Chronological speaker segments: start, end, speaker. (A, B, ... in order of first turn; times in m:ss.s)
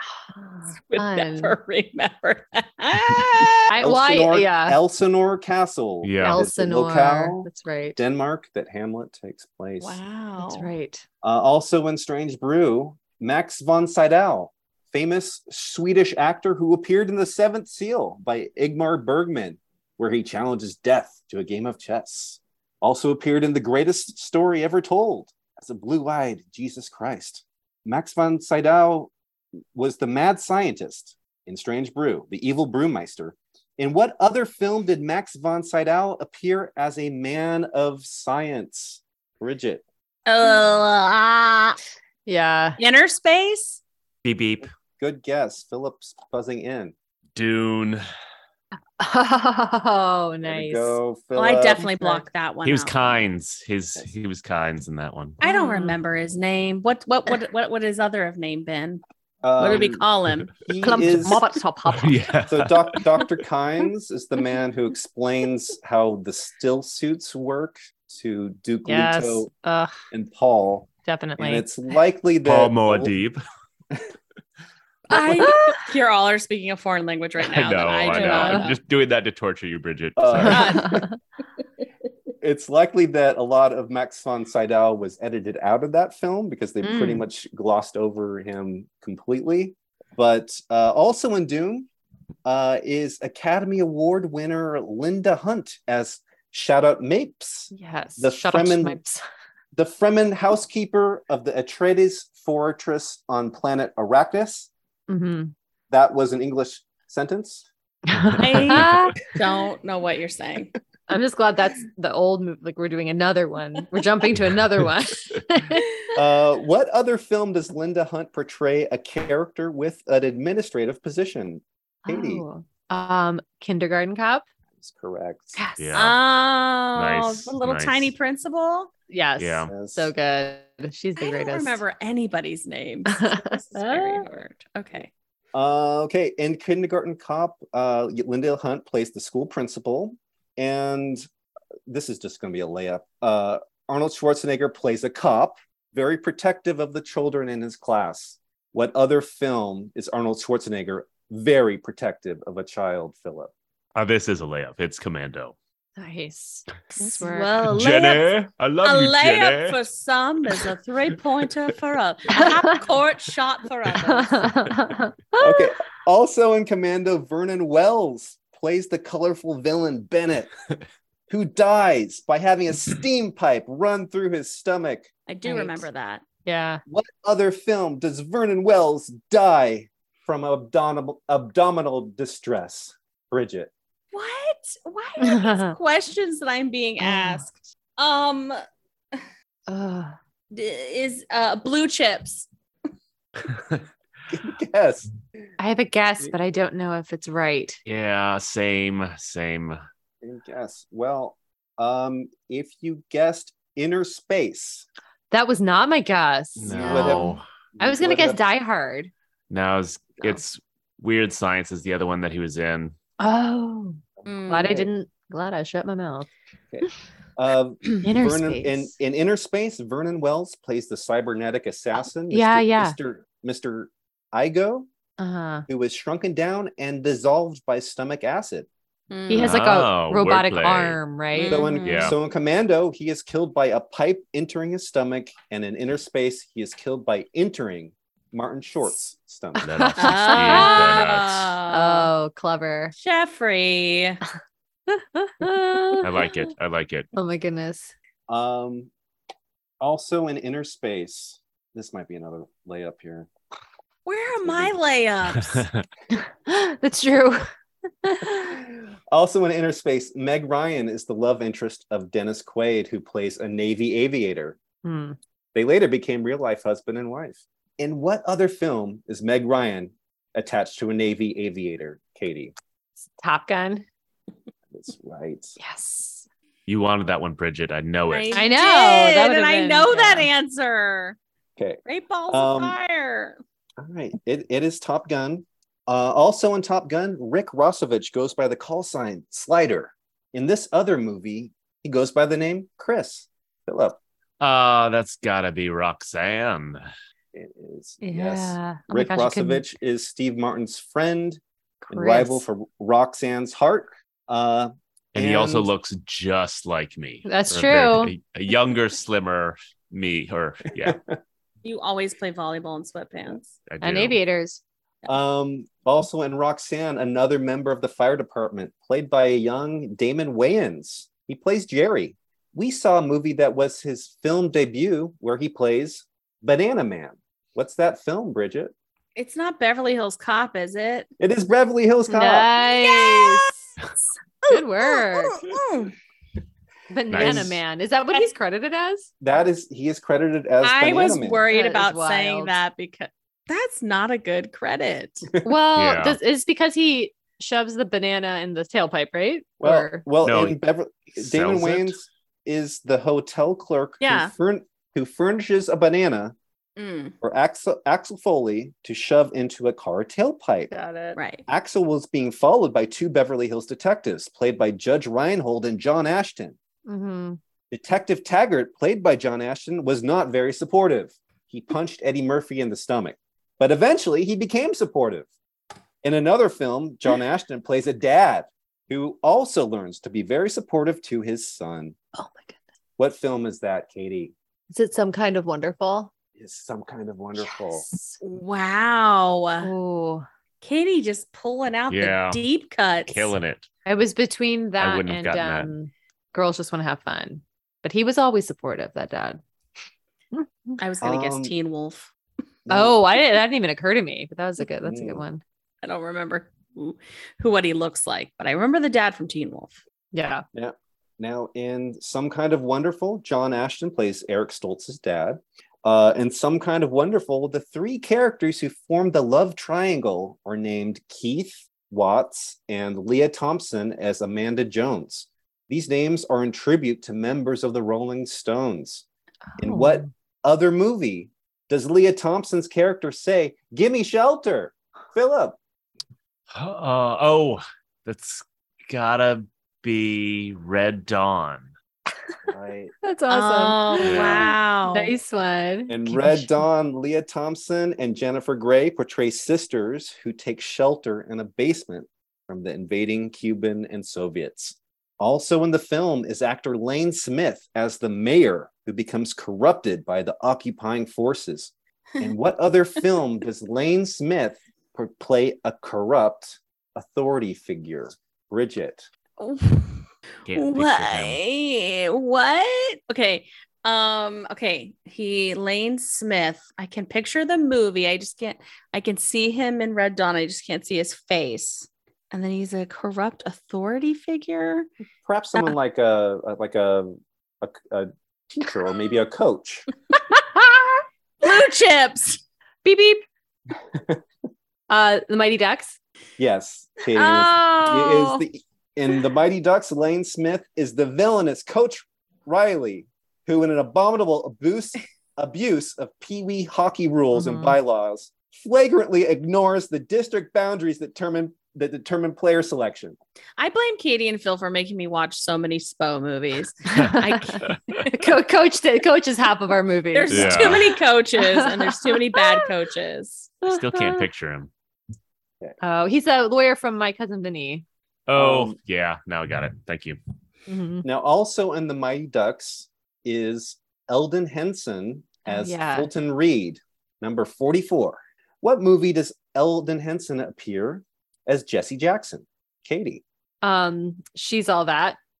0:00.3-0:01.6 A
0:00.8-0:03.7 B
0:03.7-0:04.8 A
0:03.8-0:10.0 C
0:06.0-0:06.4 D
0:06.2-0:08.0 A
0:09.8-0:10.7 B
0:10.4-0:11.0 A
0:11.2-0:29.1 C
0:29.7-0:39.8 C
0:40.2-0:41.8 B
0:42.2-0:42.8 A
0:42.8-0:43.8 B
0:44.2-0:44.7 D
0:45.0-0:46.9 C
0:47.4-0:48.0 D
0:49.0-0:51.0 A
0:50.4-0:51.9 C
0:51.3-0:53.2 B
0:52.0-0:52.2 A
0:52.6-0:55.4 D
0:55.4-0:59.0 B
0:55.4-0:56.0 A
0:59.4-1:00.0 C
0:59.6-1:00.7 B
1:00.6-1:01.4 C
1:00.8-1:02.2 A
1:01.9-1:03.2 D
1:02.5-1:09.5 C
1:08.8-1:09.9 A
1:10.1-1:13.1 C
1:11.0-1:11.6 A
1:12.4-1:13.4 D
1:15.1-1:18.8 B
1:15.1-1:15.8 A
1:17.4-1:20.8 D
1:18.1-1:18.7 A
1:20.2-1:21.1 C
1:20.4-1:21.2 A
1:20.5-1:20.9 B
1:22.4-1:31.9 C
1:26.8-1:27.2 A
1:32.4-1:39.0 C
1:37.7-1:39.2 A
1:39.7-1:44.7 C
1:45.1-1:45.5 A
1:45.9-1:47.7 C
1:48.1-1:49.2 A
1:48.4-1:50.8 B
1:51.1-1:56.0 A
1:56.1-2:02.4 C
2:02.0-2:04.4 A
2:04.8-2:05.6 C
2:05.5-2:06.0 A
2:05.8-2:06.2 D
2:05.9-2:08.9 B
2:07.0-2:08.1 D
2:09.1-2:11.8 A
2:09.4-2:09.7 D
2:09.7-2:10.1 C
2:11.2-2:15.1 B
2:13.1-2:14.2 A
2:15.5-2:21.2 C
2:21.9-2:33.5 C
2:33.9-2:35.6 D
2:36.0-2:37.6 A
2:37.0-2:44.5 B
2:37.7-2:39.8 D
2:42.3-2:42.8 A
2:44.1-2:45.7 A
2:45.4-2:50.5 C
2:51.3-2:55.1 C
2:55.3-2:56.2 B
2:55.4-2:55.9 A
2:56.4-2:56.8 A
2:56.9-3:03.7 C
3:04.1-3:08.6 B
3:05.2-3:05.7 A
3:07.0-3:07.4 A
3:09.7-3:10.1 A
3:10.5-3:12.5 B
3:13.5-3:13.8 D
3:14.3-3:15.1 C
3:15.6-3:17.8 A
3:17.8-3:19.8 D
3:20.2-3:24.8 C
3:25.3-3:27.3 A
3:26.6-3:27.4 D
3:26.7-3:27.3 B
3:26.7-3:28.4 C
3:27.8-3:29.1 A
3:29.5-3:33.0 D
3:33.2-3:36.3 A
3:34.2-3:34.9 C
3:34.2-3:34.8 B
3:36.7-3:44.9 C
3:38.0-3:38.9 A
3:42.3-3:43.0 A
3:45.2-3:45.6 A
3:45.7-3:48.7 C
3:49.1-3:49.6 B
3:49.3-3:52.1 A
3:49.3-3:51.0 D
3:51.3-3:52.1 B
3:51.4-3:59.6 C
3:51.8-3:52.1 D
3:59.6-4:01.0 A
3:59.6-4:01.5 D
4:00.0-4:02.1 B
4:01.7-4:02.9 A
4:02.9-4:04.2 B
4:04.9-4:06.1 A
4:06.0-4:07.1 D
4:07.1-4:07.9 A
4:08.3-4:08.9 C
4:09.8-4:13.3 C
4:14.0-4:15.6 B
4:14.4-4:14.8 C
4:15.3-4:15.8 D
4:16.1-4:17.5 A
4:18.0-4:18.6 A
4:19.1-4:24.6 C
4:24.8-4:25.2 A
4:25.5-4:32.5 C
4:33.0-4:33.8 A
4:34.7-4:35.6 C
4:35.6-4:36.2 A
4:36.7-4:38.4 D
4:38.1-4:41.2 B
4:38.3-4:40.3 A
4:41.6-4:42.8 C
4:41.8-4:43.4 B
4:43.8-4:54.0 C
4:54.4-4:56.8 D
4:57.3-5:05.7 C
4:58.0-4:59.6 A
5:01.8-5:02.4 A
5:05.1-5:11.0 D
5:07.2-5:08.1 A
5:10.8-5:11.1 C
5:11.6-5:13.5 B
5:13.7-5:14.2 D
5:13.8-5:14.6 A
5:15.1-5:28.7 C
5:29.2-5:31.1 B
5:31.2-5:32.5 C
5:32.1-5:33.5 A
5:32.6-5:33.5 B
5:34.4-5:35.4 A
5:34.5-5:35.9 B
5:36.9-5:39.1 A
5:37.1-5:37.5 D
5:37.1-5:37.6 C
5:39.2-5:41.4 C
5:40.6-5:45.3 B
5:41.5-5:42.5 A
5:45.4-5:50.0 A
5:45.7-5:46.2 D
5:49.6-5:56.3 C
5:50.2-5:50.6 D
5:51.2-5:52.0 D
5:54.0-5:54.3 B
5:56.8-5:57.2 B
5:57.2-6:00.7 C
6:00.7-6:01.4 B
6:01.5-6:06.6 C
6:06.8-6:07.4 A
6:07.7-6:15.3 C
6:16.0-6:22.0 C
6:22.1-6:22.6 A
6:23.0-6:24.3 C
6:24.7-6:26.1 A
6:26.4-6:27.8 C
6:27.4-6:28.2 A
6:28.2-6:29.7 B
6:29.6-6:30.2 A
6:30.6-6:33.3 B
6:31.9-6:32.4 D
6:33.1-6:33.7 D
6:33.8-6:39.4 A
6:34.8-6:35.7 D
6:40.3-6:40.8 A
6:40.8-6:42.1 B
6:41.0-6:41.5 C
6:42.6-6:43.0 C
6:42.7-6:45.4 A
6:44.8-6:45.2 C
6:45.8-6:49.8 B
6:50.1-6:50.4 A
6:50.5-7:09.0 C
7:09.6-7:10.1 A
7:09.6-7:15.6 C
7:16.5-7:21.7 D
7:22.5-7:22.9 C
7:23.0-7:26.5 A
7:23.3-7:25.1 B
7:24.0-7:24.5 D
7:25.9-7:49.1 C
7:49.4-8:04.9 B
7:50.4-7:51.4 D
8:05.2-8:09.9 C
8:10.3-8:10.9 A
8:11.4-8:12.4 B
8:12.8-8:13.2 A
8:13.9-8:14.2 C
8:14.9-8:16.0 A
8:16.4-8:33.2 C
8:17.1-8:18.4 B
8:27.3-8:27.8 A
8:33.6-8:37.8 B
8:36.9-8:42.7 A
8:37.0-8:38.0 D
8:40.1-8:43.6 B
8:40.3-8:40.9 D
8:43.6-8:44.3 A
8:43.6-8:44.7 D
8:45.8-8:47.8 A
8:48.3-8:50.2 D
8:48.3-8:48.8 C
8:50.7-8:51.0 A
8:51.0-9:03.2 C
8:55.4-8:56.1 A
9:03.6-9:05.2 A